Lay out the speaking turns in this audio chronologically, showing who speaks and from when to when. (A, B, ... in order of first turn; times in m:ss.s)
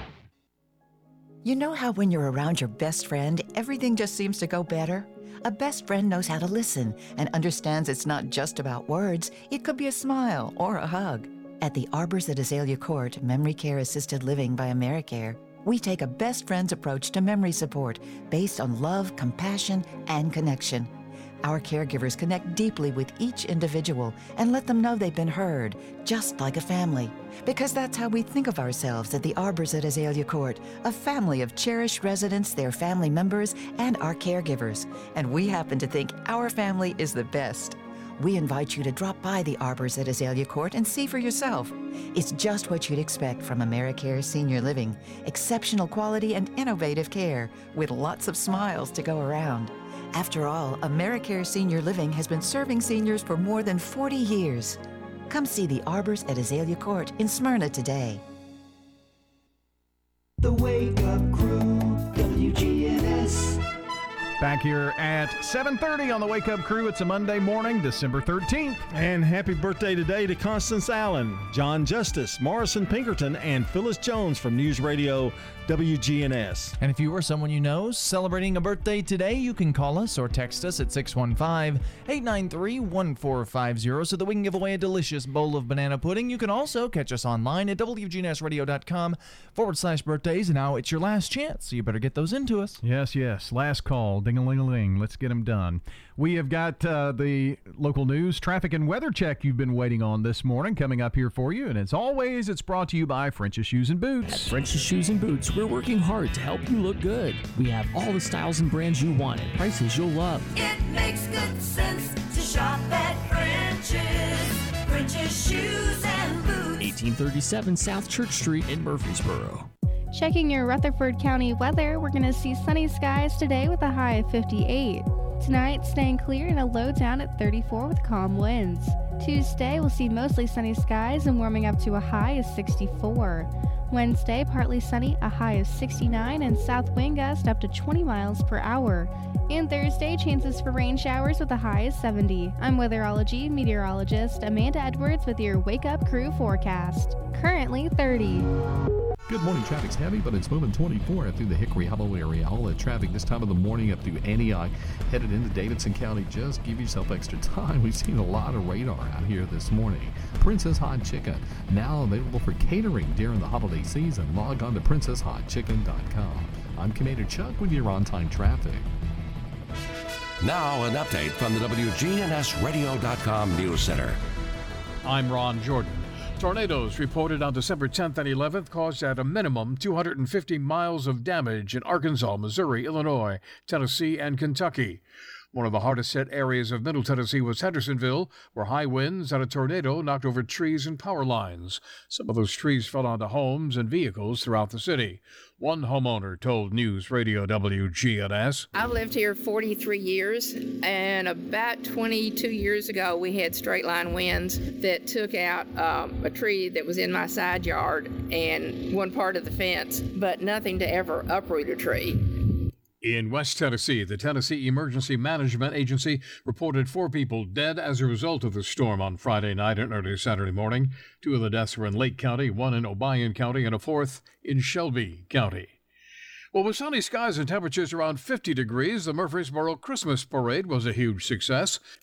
0:01.4-0:20.9 A
0:21.4-0:54.8 A
0:55.3-0:58.2 A
1:00.4-1:03.6 B
1:04.4-1:08.8 C
1:08.9-1:16.8 D
1:16.8-1:32.8 E
1:32.8-1:44.5 C
1:44.3-1:50.5 F
1:50.7-1:56.9 G
1:56.8-1:59.6 F
2:00.1-2:28.5 H
2:29.3-2:48.9 I
2:50.4-2:54.2 J
2:55.0-3:05.0 K
3:05.5-3:18.7 K
3:19.1-3:32.1 L
3:33.0-3:45.7 K
3:46.5-3:51.8 K